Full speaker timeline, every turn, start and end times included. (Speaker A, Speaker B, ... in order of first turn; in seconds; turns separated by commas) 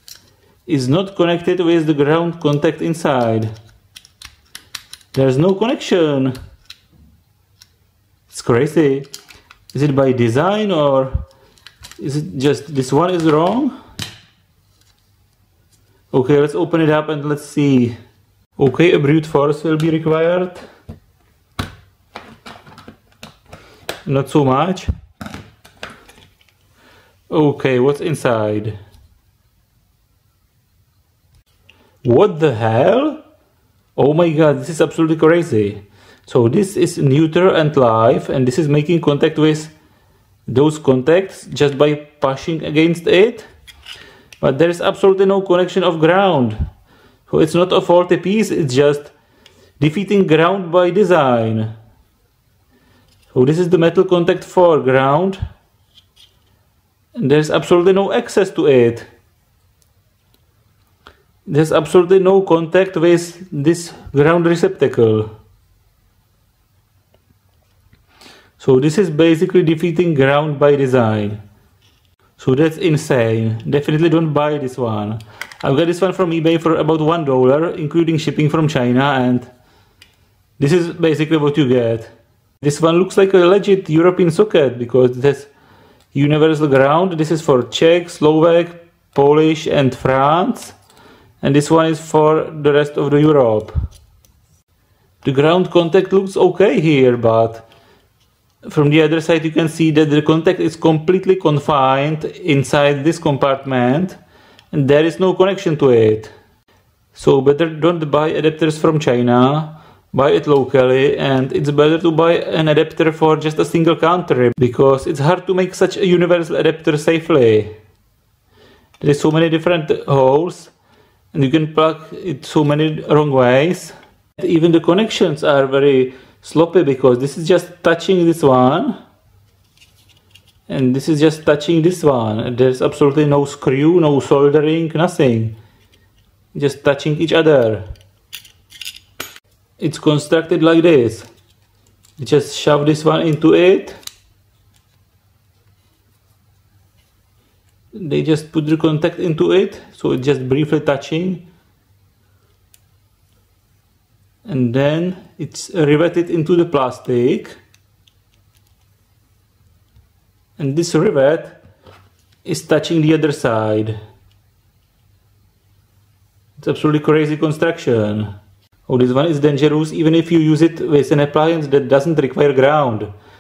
Speaker A: 0.7-3.5, Speaker A: 5.1-6.3, Speaker A: 8.3-9.1, Speaker A: 9.7-11.1, Speaker A: 12.0-13.7, Speaker A: 16.1-17.9, Speaker A: 18.6-20.6, Speaker A: 24.0-24.9, Speaker A: 27.3-28.8, Speaker A: 32.0-33.2, Speaker A: 34.0-39.7, Speaker A: 40.5-43.5, Speaker A: 44.4-46.6, Speaker A: 47.3-49.1, Speaker A: 49.8-51.7, Speaker A: 53.3-55.4, Speaker A: 57.1-59.1, Speaker A: 61.5-65.3, Speaker A: 68.6-71.4, Speaker A: 72.4-79.5, Speaker A: 80.6-82.1, Speaker A: 82.6-85.5, Speaker A: 86.1-90.8, Speaker A: 91.4-93.7, Speaker A: 95.2-97.6, Speaker A: 98.7-104.2, Speaker A: 104.7-106.3, Speaker A: 107.1-117.7, Speaker A: 119.0-120.7, Speaker A: 121.3-128.9, Speaker A: 130.7-135.5, Speaker A: 136.5-137.8, Speaker A: 139.8-141.3, Speaker A: 142.2-144.0, Speaker A: 147.9-151.4, Speaker A: 154.4-157.6, Speaker A: 160.6-161.6, Speaker A: 162.4-164.0, Speaker A: 166.6-168.3, Speaker A: 168.9-173.1